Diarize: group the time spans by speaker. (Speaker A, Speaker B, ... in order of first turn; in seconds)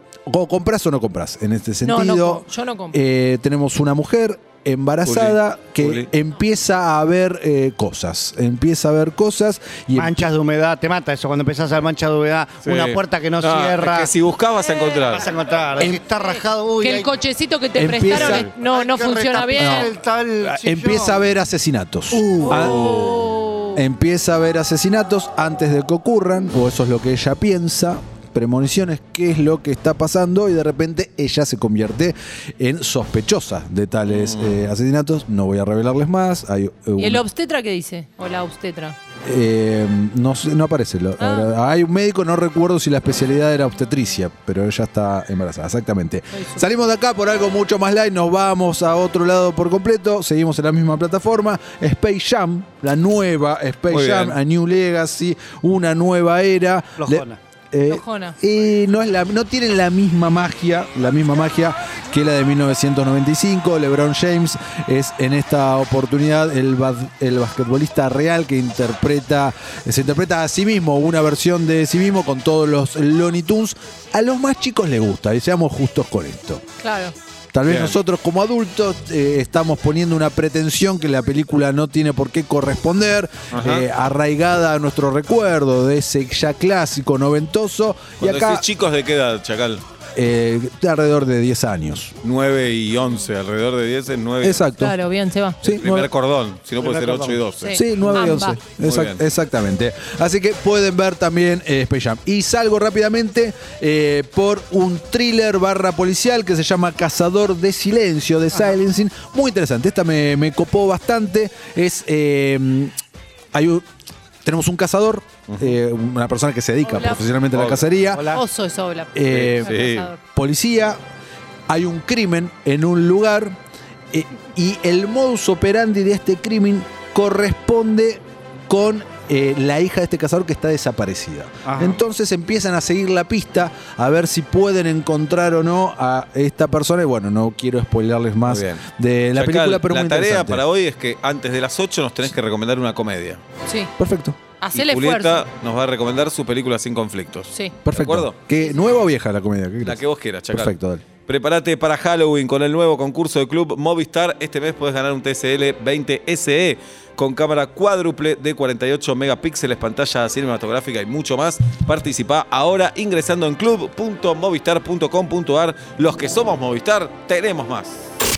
Speaker A: 0.3-10.2, 17.8-18.5, 19.5-23.1, 23.7-37.2, 39.2-76.6, 77.5-88.7, 90.2-92.1, 94.4-95.0, 95.6-96.1, 97.7-112.9, 113.5-113.8, 114.4-118.3, 119.1-121.0, 121.7-123.5, 124.1-140.6, 144.0-144.4, 147.8-151.0
Speaker B: 1.8-3.0, 16.8-19.9, 22.6-23.8, 37.0-39.0, 41.2-41.5, 46.3-46.6, 57.9-58.4, 76.8-77.1, 94.8-95.6, 97.6-98.6, 116.8-117.2, 118.3-120.2, 143.6-143.9, 144.6-145.4
Speaker C: 5.0-6.1, 12.6-15.3, 18.1-18.4, 22.5-23.3, 34.1-34.6, 53.9-54.4, 77.6-78.0, 83.5-83.9, 88.2-89.8, 92.2-94.7, 95.6-97.9, 98.8-99.2, 115.5-115.8, 117.5-117.9, 119.3-120.1, 131.6-132.0, 138.4-143.4, 144.7-148.3, 149.8-150.7, 151.2-168.0
Speaker D: 9.9-14.1, 15.1-17.1, 18.5-21.3, 22.1-22.6, 57.0-57.4, 96.8-97.4, 118.1-118.4